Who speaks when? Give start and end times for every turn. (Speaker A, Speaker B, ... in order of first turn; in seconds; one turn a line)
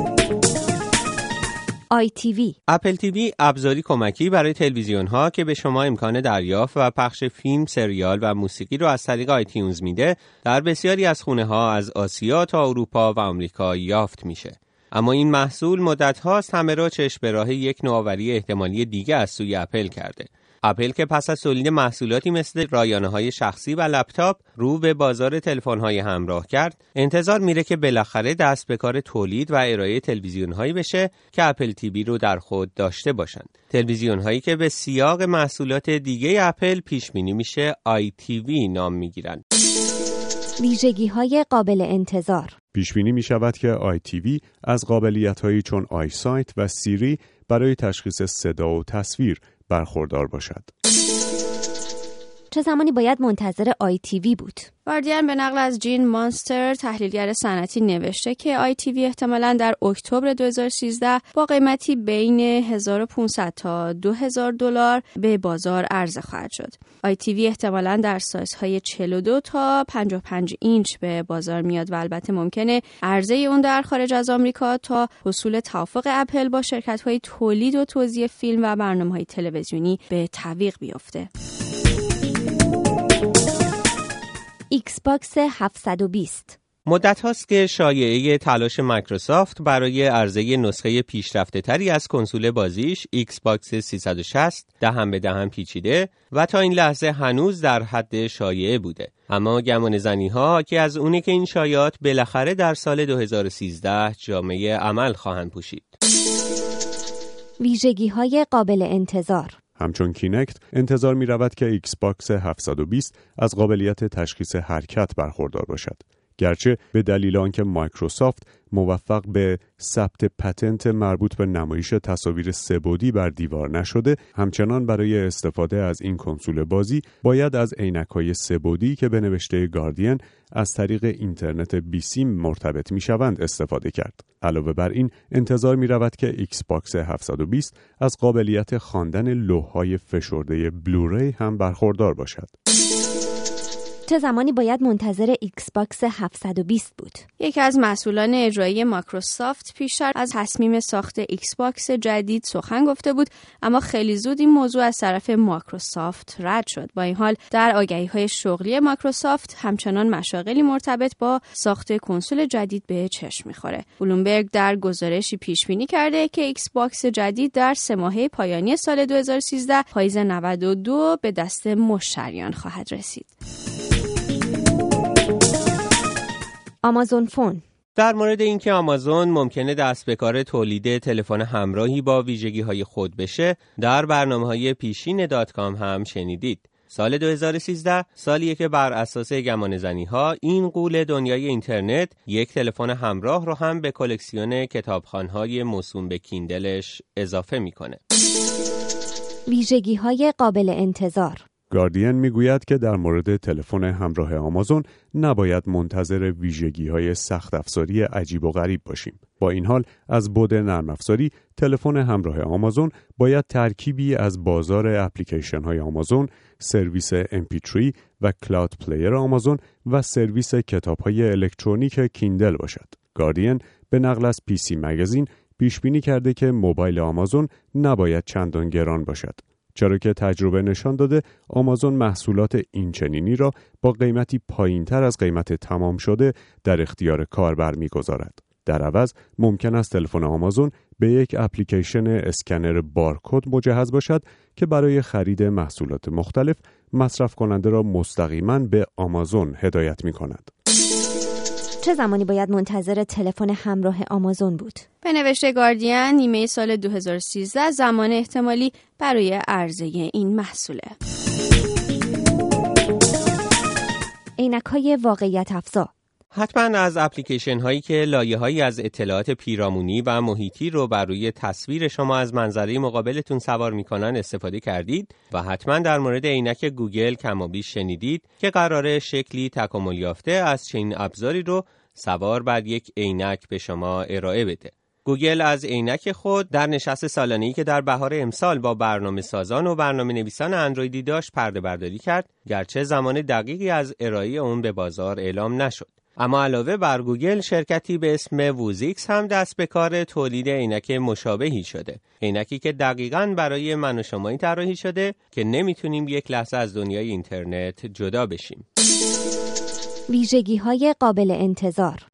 Speaker A: 1.9-2.5
Speaker B: 2.7-39.4
Speaker A: 40.6-42.5
Speaker C: 42.7-50.7
Speaker A: 52.5-54.7
Speaker D: 54.9-81.3
Speaker A: 84.7-86.6
Speaker B: 86.9-106.0
Speaker A: 107.6-109.5
Speaker C: 109.8-142.5
Speaker A: 144.1-147.2
Speaker D: 147.4-173.3
Speaker A: 176.8-177.6
Speaker B: 177.9-198.0
Speaker A: 199.5-201.4
Speaker C: 201.7-250.5
Speaker A: 251.8-254.8
Speaker D: 255.0-260.9
Speaker A: 264.4-265.9
Speaker B: 266.3-308.6
Speaker A: 310.1-312.0